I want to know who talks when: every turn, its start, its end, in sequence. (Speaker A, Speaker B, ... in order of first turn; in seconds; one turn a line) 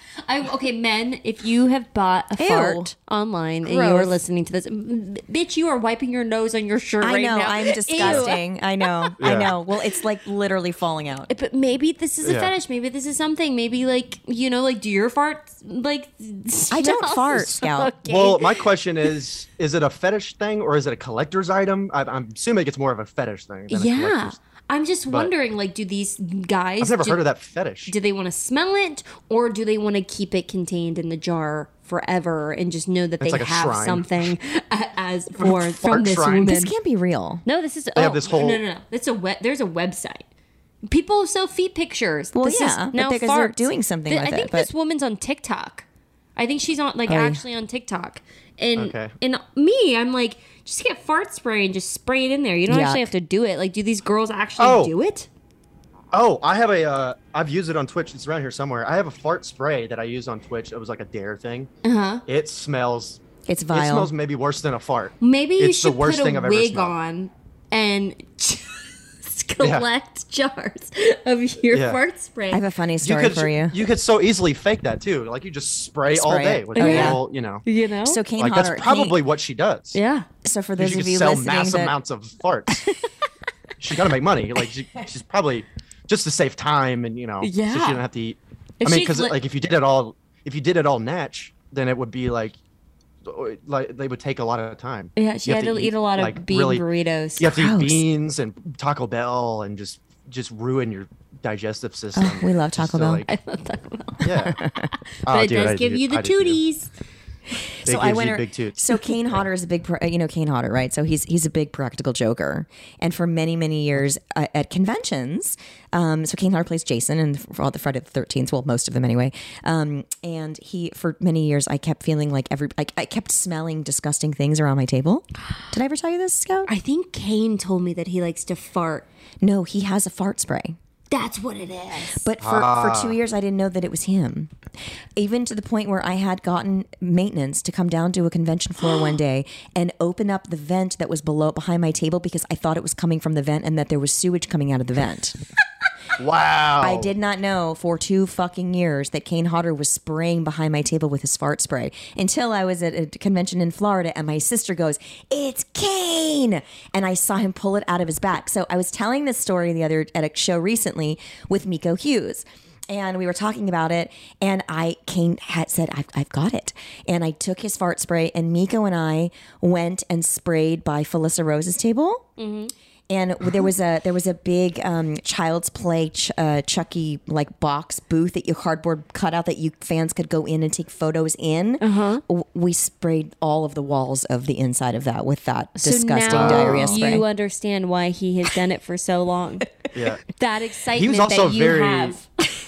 Speaker A: 0.2-9.2
Speaker B: 2.4-2.9
Speaker B: 3.6-4.2
Speaker B: 7.0-11.3
Speaker C: 8.0-8.3
Speaker C: 9.2-9.5
Speaker A: 11.3-18.7
Speaker C: 12.2-12.5
Speaker B: 16.7-17.9
Speaker C: 18.1-24.4
Speaker A: 23.7-27.2
Speaker C: 26.8-27.9
Speaker A: 27.9-36.7
Speaker C: 33.2-34.3
Speaker C: 35.4-36.6
Speaker B: 36.4-37.4
Speaker A: 37.5-40.2
Speaker C: 38.0-38.6
Speaker A: 40.9-45.9
Speaker B: 42.3-44.7
Speaker A: 46.4-55.3
Speaker B: 47.1-47.4
Speaker C: 48.8-49.1
Speaker B: 52.7-53.1
Speaker C: 54.6-54.9
Speaker C: 56.1-61.7
Speaker A: 61.8-62.2
Speaker C: 62.3-63.2
Speaker B: 63.5-64.1
Speaker C: 63.7-66.9
Speaker A: 65.2-72.6
Speaker C: 69.6-69.9
Speaker C: 71.7-72.0
Speaker B: 72.5-73.8
Speaker C: 73.0-77.6
Speaker B: 76.1-77.2
Speaker A: 76.8-78.2
Speaker B: 78.0-79.2
Speaker C: 78.4-80.0
Speaker A: 79.9-80.3
Speaker B: 80.4-82.0
Speaker C: 80.8-82.8
Speaker C: 83.8-92.6
Speaker A: 87.4-88.0
Speaker A: 88.8-89.4
Speaker C: 93.2-96.8
Speaker A: 95.2-97.5
Speaker C: 97.4-103.3
Speaker B: 97.5-98.0
Speaker B: 102.2-103.2
Speaker A: 103.3-104.3
Speaker C: 104.2-104.6
Speaker A: 105.2-106.9
Speaker C: 105.3-106.6
Speaker B: 107.8-126.7
Speaker C: 107.9-109.4
Speaker A: 126.7-129.1
Speaker B: 129.4-130.8
Speaker A: 131.1-132.2
Speaker B: 132.1-134.5
Speaker C: 132.4-133.2
Speaker B: 135.2-145.4
Speaker C: 146.2-147.1
Speaker B: 146.8-172.3
Speaker A: 172.4-172.7
Speaker B: 173.1-187.2
Speaker A: 181.8-182.2
Speaker A: 185.8-189.7
Speaker C: 186.3-187.1
Speaker C: 189.9-190.3
Speaker A: 190.3-192.2
Speaker C: 190.9-192.2